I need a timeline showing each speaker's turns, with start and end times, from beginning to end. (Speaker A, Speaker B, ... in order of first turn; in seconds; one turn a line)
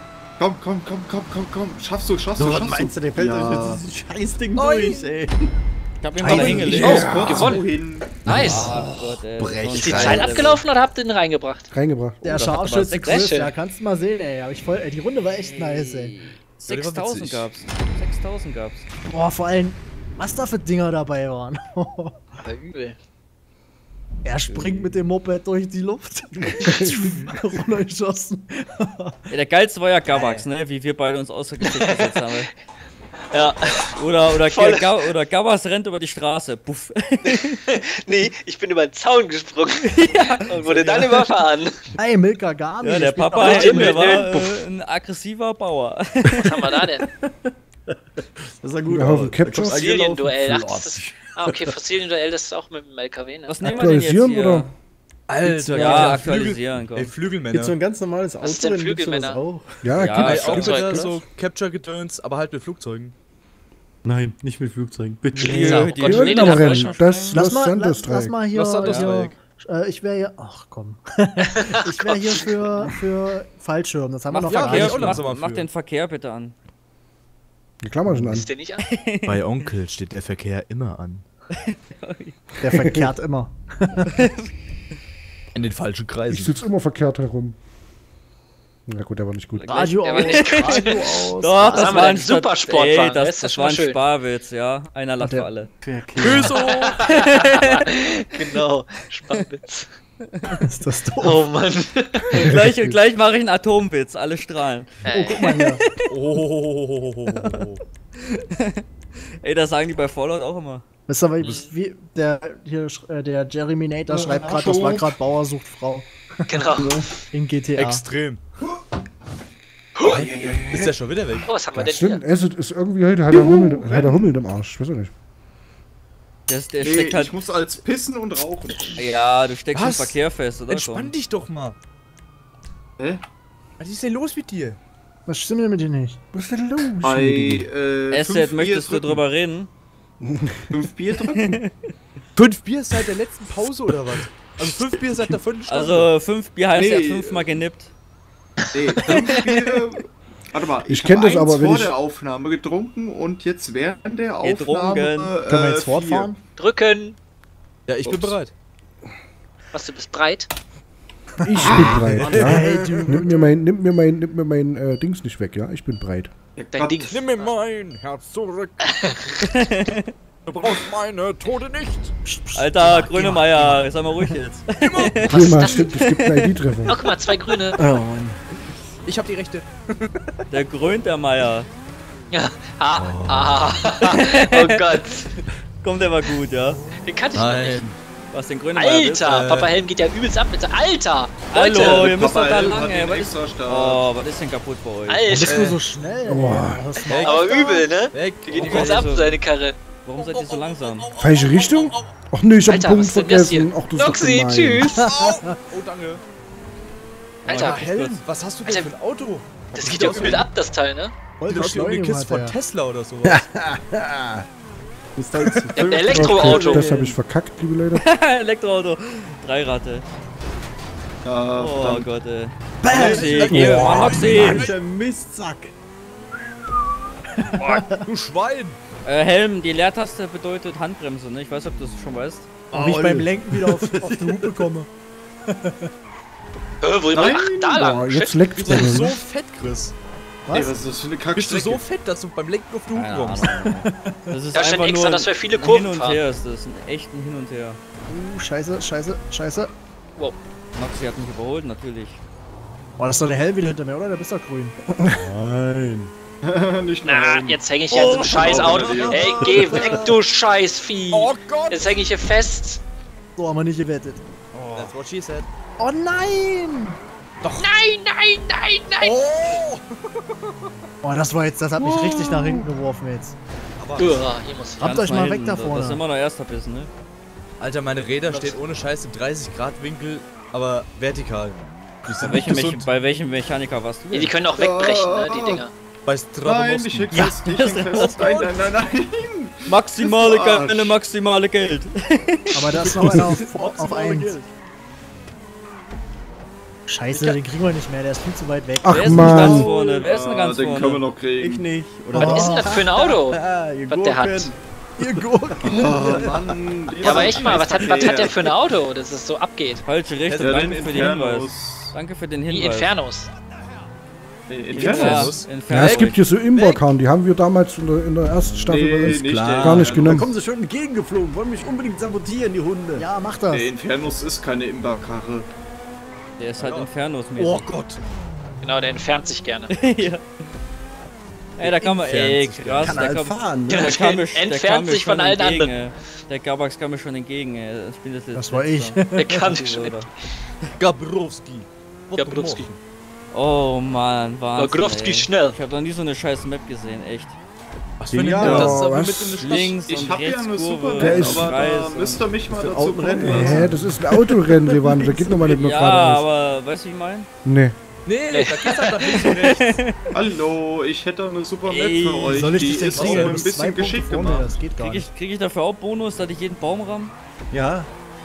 Speaker A: 0.4-3.8
Speaker B: 2.4-5.5
Speaker C: 4.5-5.2
Speaker D: 6.0-7.6
Speaker E: 6.0-6.8
Speaker B: 6.2-7.2
Speaker A: 6.3-8.6
Speaker F: 6.7-7.6
Speaker B: 8.2-10.5
Speaker D: 8.2-11.7
Speaker E: 8.4-10.6
Speaker F: 11.7-12.2
Speaker G: 12.2-16.2
Speaker D: 12.3-13.5
Speaker E: 12.4-13.2
Speaker E: 15.5-18.8
Speaker C: 16.7-17.5
Speaker G: 19.1-22.2
Speaker D: 22.4-22.9
Speaker G: 24.2-29.3
Speaker E: 24.5-24.9
Speaker F: 26.6-27.2
Speaker E: 29.3-32.5
Speaker D: 30.0-30.5
Speaker D: 31.5-32.5
Speaker D: 33.3-35.4
Speaker E: 34.0-37.4
Speaker D: 37.2-41.8
Speaker E: 39.9-41.5
Speaker G: 42.0-44.2
Speaker E: 42.8-45.9
Speaker D: 43.2-47.0
Speaker B: 48.6-51.8
Speaker F: 48.9-49.9
Speaker D: 49.7-54.5
Speaker E: 53.5-53.7
Speaker F: 53.6-54.7
Speaker C: 55.3-57.8
Speaker B: 55.4-56.3
Speaker D: 55.7-57.0
Speaker E: 56.5-56.8
Speaker B: 57.5-59.9
Speaker D: 58.4-59.4
Speaker F: 59.8-61.1
Speaker D: 60.0-61.1
Speaker C: 60.2-63.1
Speaker B: 64.0-66.3
Speaker D: 65.4-67.2
Speaker E: 65.5-67.3
Speaker F: 66.0-68.4
Speaker G: 67.3-75.2
Speaker C: 68.5-69.4
Speaker E: 74.3-76.5
Speaker D: 74.4-75.1
Speaker C: 74.4-75.7
Speaker D: 75.8-76.4
Speaker F: 77.8-78.5
Speaker D: 78.3-79.1
Speaker C: 79.2-81.2
Speaker D: 81.7-82.2
Speaker G: 82.6-84.3
Speaker F: 82.7-83.1
Speaker C: 85.5-86.6
Speaker F: 86.3-87.5
Speaker F: 88.9-90.0
Speaker D: 89.6-95.6
Speaker G: 89.7-92.2
Speaker E: 90.0-90.8
Speaker E: 91.4-95.7
Speaker G: 95.2-95.5
Speaker B: 95.8-96.5
Speaker C: 96.2-97.1
Speaker D: 96.5-99.9
Speaker G: 100.6-101.5
Speaker D: 101.2-103.2
Speaker E: 102.8-105.4
Speaker D: 104.4-105.6
Speaker G: 105.1-105.8
Speaker C: 106.1-107.8
Speaker D: 109.4-110.2
Speaker E: 109.6-110.8
Speaker G: 111.1-116.6
Speaker D: 111.4-111.7
Speaker A: 114.1-115.1
Speaker D: 116.5-116.9
Speaker B: 116.8-117.0
Speaker G: 117.2-118.0
Speaker C: 117.8-118.4
Speaker D: 120.0-120.2
Speaker B: 120.1-120.8
Speaker C: 120.6-121.5
Speaker D: 121.4-122.2
Speaker F: 121.7-125.1
Speaker A: 123.3-124.2
Speaker E: 126.5-127.1
Speaker D: 126.5-127.3
Speaker A: 126.8-129.1
Speaker D: 129.0-129.3
Speaker E: 129.0-131.1
Speaker C: 129.7-130.2
Speaker D: 129.9-130.8
Speaker C: 130.7-131.7
Speaker C: 133.8-134.8
Speaker G: 135.2-136.2
Speaker F: 136.3-137.7
Speaker A: 137.0-139.2
Speaker E: 138.1-139.7
Speaker D: 138.2-139.2
Speaker F: 140.2-140.7
Speaker A: 140.7-141.6
Speaker C: 142.3-146.1
Speaker E: 145.7-147.9
Speaker D: 146.2-147.6
Speaker A: 146.7-147.6
Speaker D: 148.7-149.5
Speaker A: 148.7-156.3
Speaker F: 150.9-151.9
Speaker D: 154.4-155.3
Speaker E: 154.4-155.2
Speaker G: 155.4-156.4
Speaker D: 156.6-157.2
Speaker C: 157.9-158.5
Speaker A: 158.1-158.3
Speaker D: 159.7-160.5
Speaker F: 161.4-166.3
Speaker A: 161.7-162.0
Speaker B: 162.0-162.6
Speaker G: 162.2-163.5
Speaker A: 166.6-167.2
Speaker D: 166.7-167.5
Speaker C: 167.1-168.7
Speaker D: 168.8-170.0
Speaker C: 170.4-172.1
Speaker G: 172.2-173.8
Speaker E: 172.6-174.3
Speaker D: 172.9-176.1
Speaker C: 174.8-175.7
Speaker F: 175.3-177.0
Speaker D: 176.8-177.8
Speaker E: 177.1-177.5
Speaker B: 177.8-178.4
Speaker C: 179.1-180.3
Speaker D: 180.6-181.6
Speaker E: 180.8-181.6
Speaker D: 182.3-185.3
Speaker C: 183.0-183.5
Speaker B: 183.0-183.5
Speaker E: 184.1-185.0
Speaker D: 185.8-187.8
Speaker E: 185.9-186.8
Speaker C: 187.3-188.0
Speaker E: 188.3-189.2
Speaker D: 188.5-192.9
Speaker C: 189.2-189.7
Speaker E: 191.5-193.3
Speaker A: 191.7-194.1
Speaker D: 193.7-195.6
Speaker E: 193.9-195.2
Speaker G: 195.3-197.9
Speaker C: 195.5-195.8
Speaker F: 196.2-196.8
Speaker D: 197.1-201.1
Speaker C: 197.1-199.2
Speaker E: 198.6-199.3
Speaker E: 200.1-201.0
Speaker C: 200.2-202.1
Speaker F: 201.2-204.9
Speaker D: 202.7-205.1
Speaker G: 204.9-205.5
Speaker C: 205.1-206.2
Speaker D: 207.4-208.1
Speaker C: 207.5-210.5
Speaker D: 208.6-208.9
Speaker D: 209.7-211.1
Speaker G: 211.4-212.6
Speaker C: 211.5-213.5
Speaker B: 213.2-214.4
Speaker B: 215.2-217.2
Speaker D: 215.7-216.8
Speaker F: 216.1-218.0
Speaker E: 218.4-218.8
Speaker D: 218.5-218.9
Speaker E: 219.4-220.0
Speaker A: 221.2-222.1
Speaker D: 221.6-222.0
Speaker E: 221.6-222.5
Speaker G: 222.8-223.3
Speaker C: 222.9-224.7
Speaker E: 223.0-224.6
Speaker D: 223.1-224.6
Speaker F: 223.5-224.6
Speaker B: 223.9-225.7
Speaker G: 227.6-228.0
Speaker C: 227.6-228.8
Speaker E: 229.1-232.4
Speaker D: 229.2-229.9
Speaker D: 232.0-232.4
Speaker B: 232.7-234.7
Speaker G: 232.7-234.9
Speaker G: 235.5-235.9
Speaker D: 236.8-238.4
Speaker A: 237.1-238.0
Speaker F: 237.7-239.2
Speaker C: 238.6-239.9
Speaker G: 240.5-240.8
Speaker A: 240.5-241.8
Speaker C: 241.3-243.6
Speaker E: 243.0-243.8
Speaker D: 243.4-243.8
Speaker G: 243.6-244.3
Speaker D: 244.4-247.6
Speaker E: 244.5-247.8
Speaker G: 248.1-249.7
Speaker D: 250.2-252.1
Speaker E: 250.8-252.1
Speaker G: 253.0-254.8
Speaker B: 255.1-256.1
Speaker A: 256.4-260.0
Speaker D: 257.0-262.8
Speaker C: 258.0-258.6
Speaker B: 258.2-260.1
Speaker G: 258.8-260.1
Speaker C: 261.1-262.0
Speaker G: 263.4-264.2
Speaker C: 264.7-265.5
Speaker G: 265.8-267.0
Speaker C: 267.4-267.7
Speaker D: 267.6-269.2
Speaker C: 269.0-269.8
Speaker G: 271.0-273.4
Speaker C: 271.8-272.6
Speaker C: 273.8-274.2
Speaker D: 274.0-275.8
Speaker G: 274.8-276.0
Speaker E: 274.9-276.9
Speaker C: 277.6-282.9
Speaker D: 278.3-278.6
Speaker D: 282.2-285.7
Speaker E: 282.3-284.4
Speaker A: 284.5-285.6
Speaker C: 286.1-287.3
Speaker A: 286.4-290.9
Speaker E: 287.4-288.1
Speaker D: 287.5-288.6
Speaker E: 289.7-290.0
Speaker D: 289.9-291.3
Speaker E: 290.9-291.9
Speaker G: 292.5-294.4
Speaker C: 292.8-293.3
Speaker B: 293.2-294.3
Speaker C: 294.0-294.5
Speaker G: 296.9-299.6
Speaker F: 298.8-299.7
Speaker E: 298.9-300.0
Speaker D: 299.2-301.0
Speaker A: 299.5-301.7
Speaker B: 301.4-308.5
Speaker G: 302.1-302.9
Speaker D: 302.2-304.5
Speaker G: 305.0-306.0
Speaker A: 305.6-308.6
Speaker D: 307.0-311.5
Speaker C: 310.2-311.0
Speaker A: 310.4-311.9
Speaker E: 311.9-312.9
Speaker D: 312.4-313.3
Speaker A: 314.5-315.4
Speaker C: 314.7-316.2
Speaker D: 314.8-316.1
Speaker E: 315.4-316.0
Speaker F: 315.6-320.3
Speaker A: 318.6-320.2
Speaker B: 319.1-323.1
Speaker G: 322.9-323.7
Speaker A: 323.5-325.5
Speaker D: 326.4-327.6
Speaker C: 326.6-328.0
Speaker E: 326.9-327.7
Speaker D: 328.6-330.0
Speaker D: 331.6-337.6
Speaker C: 331.6-333.0
Speaker E: 332.3-333.3
Speaker B: 332.8-334.0
Speaker E: 333.9-335.9
Speaker E: 336.6-340.0
Speaker G: 338.3-339.6
Speaker D: 338.8-340.1
Speaker C: 340.8-342.8
Speaker D: 342.2-342.7
Speaker D: 343.3-346.4
Speaker E: 343.4-347.3
Speaker D: 347.0-347.3
Speaker C: 348.0-349.8
Speaker B: 348.1-348.7
Speaker F: 348.4-349.5
Speaker A: 348.4-348.8
Speaker E: 349.4-349.9
Speaker D: 349.6-352.2
Speaker A: 349.7-353.7
Speaker E: 350.9-352.1
Speaker F: 351.0-351.6
Speaker B: 352.5-354.0
Speaker F: 353.2-356.3
Speaker E: 355.8-357.3
Speaker D: 355.8-356.8
Speaker F: 357.4-357.8
Speaker C: 358.1-359.8
Speaker D: 358.3-359.8
Speaker A: 360.1-364.6
Speaker D: 361.7-362.1
Speaker E: 362.0-362.5
Speaker G: 362.3-365.1
Speaker C: 362.8-363.4
Speaker D: 364.8-365.6
Speaker E: 364.8-367.1
Speaker D: 366.4-367.0
Speaker B: 367.5-367.9